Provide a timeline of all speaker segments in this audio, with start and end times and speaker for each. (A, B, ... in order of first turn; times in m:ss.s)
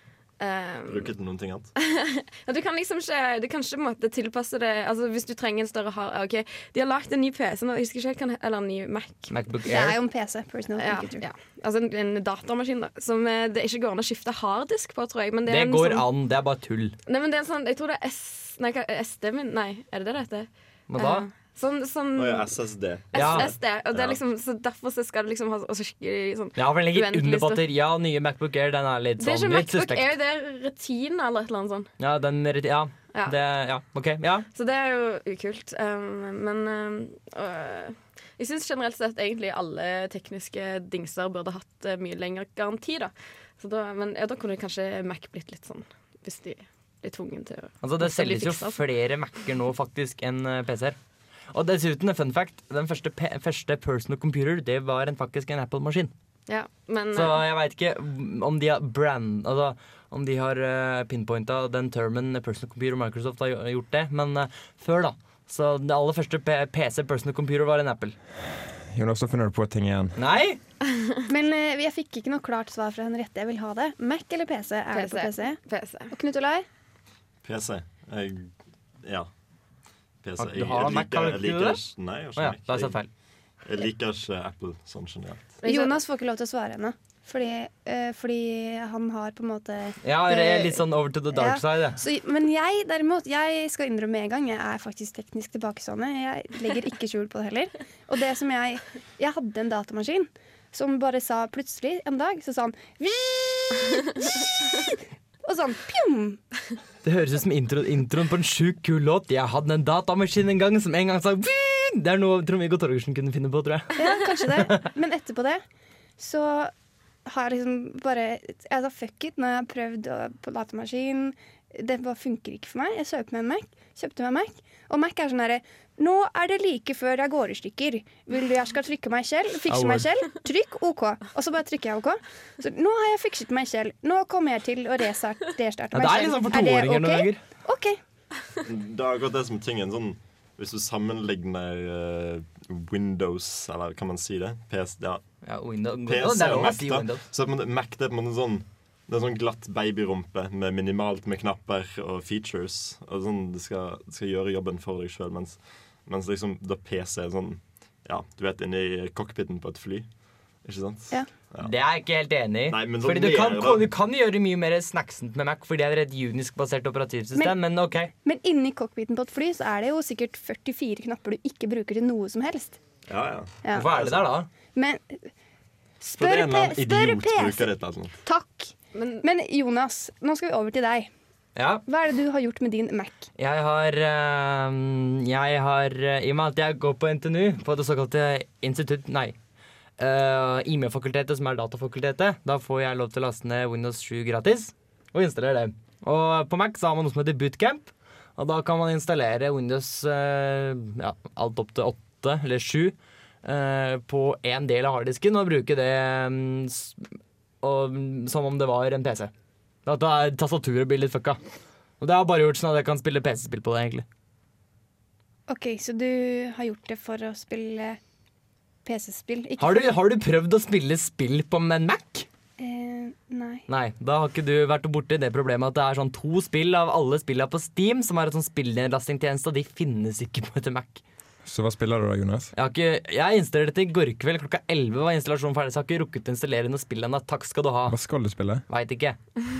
0:00.4-0:01.1 A
0:00.8-0:01.7 B
0:01.8-0:09.3 A
0:09.3-0:10.0 C
0:09.6-0:11.2 D
0:10.8-0:16.1 A
0:15.5-0:16.9 C
0:17.0-0:22.5 A
0:20.9-0:21.3 C
0:22.1-0:24.2 B
0:23.1-0:27.6 A
0:23.1-0:23.5 C
0:26.6-0:30.1 C
0:29.2-0:31.9 A
0:32.0-0:34.4 C
0:34.5-0:48.8 A
0:47.8-0:51.0 C
0:51.5-0:56.1 C
0:56.5-0:57.5 A
0:57.1-1:08.2 C
1:08.9-1:10.2 E
1:10.2-1:10.6 C
1:11.3-1:15.6 D
1:14.9-1:16.1 A
1:16.1-1:16.6 D
1:17.4-1:18.5 B
1:19.0-1:19.3 B
1:20.2-1:23.0 B
1:20.4-1:21.8 C
1:22.4-1:23.1 C
1:23.6-1:25.6 B
1:25.6-1:26.0 A
1:25.6-1:46.4 D
1:30.0-1:32.0 C
1:47.0-1:54.8 C
1:54.0-1:55.6 D
1:56.2-1:56.7 D
1:57.2-2:18.0 D
2:09.7-2:10.1 C
2:15.9-2:17.4 C
2:18.6-2:25.2 B
2:25.4-2:27.2 C
2:26.1-2:40.0 B
2:40.6-2:41.7 B
2:41.6-2:48.1 C
2:42.7-2:43.9 B
2:48.1-2:52.8 D
2:53.1-2:54.2 B
2:53.7-2:54.5 C
2:54.7-2:55.3 D
2:56.0-2:57.7 D
2:56.1-2:58.2 B
2:58.2-3:01.1 D
2:58.9-2:59.2 A
3:01.6-3:01.8 C
3:01.8-3:03.3 D
3:03.4-3:09.4 C
3:10.0-3:27.1 C
3:27.6-3:29.3 C
3:29.8-3:31.4 C
3:32.0-3:34.0 C
3:35.5-3:38.0 D
3:38.8-3:39.8 D
3:39.6-3:42.3 C
3:42.6-3:43.6 D
3:43.7-3:51.0 C
3:51.4-3:52.5 E
3:52.5-3:58.0 C
3:57.9-3:58.6 E
3:58.7-3:59.2 C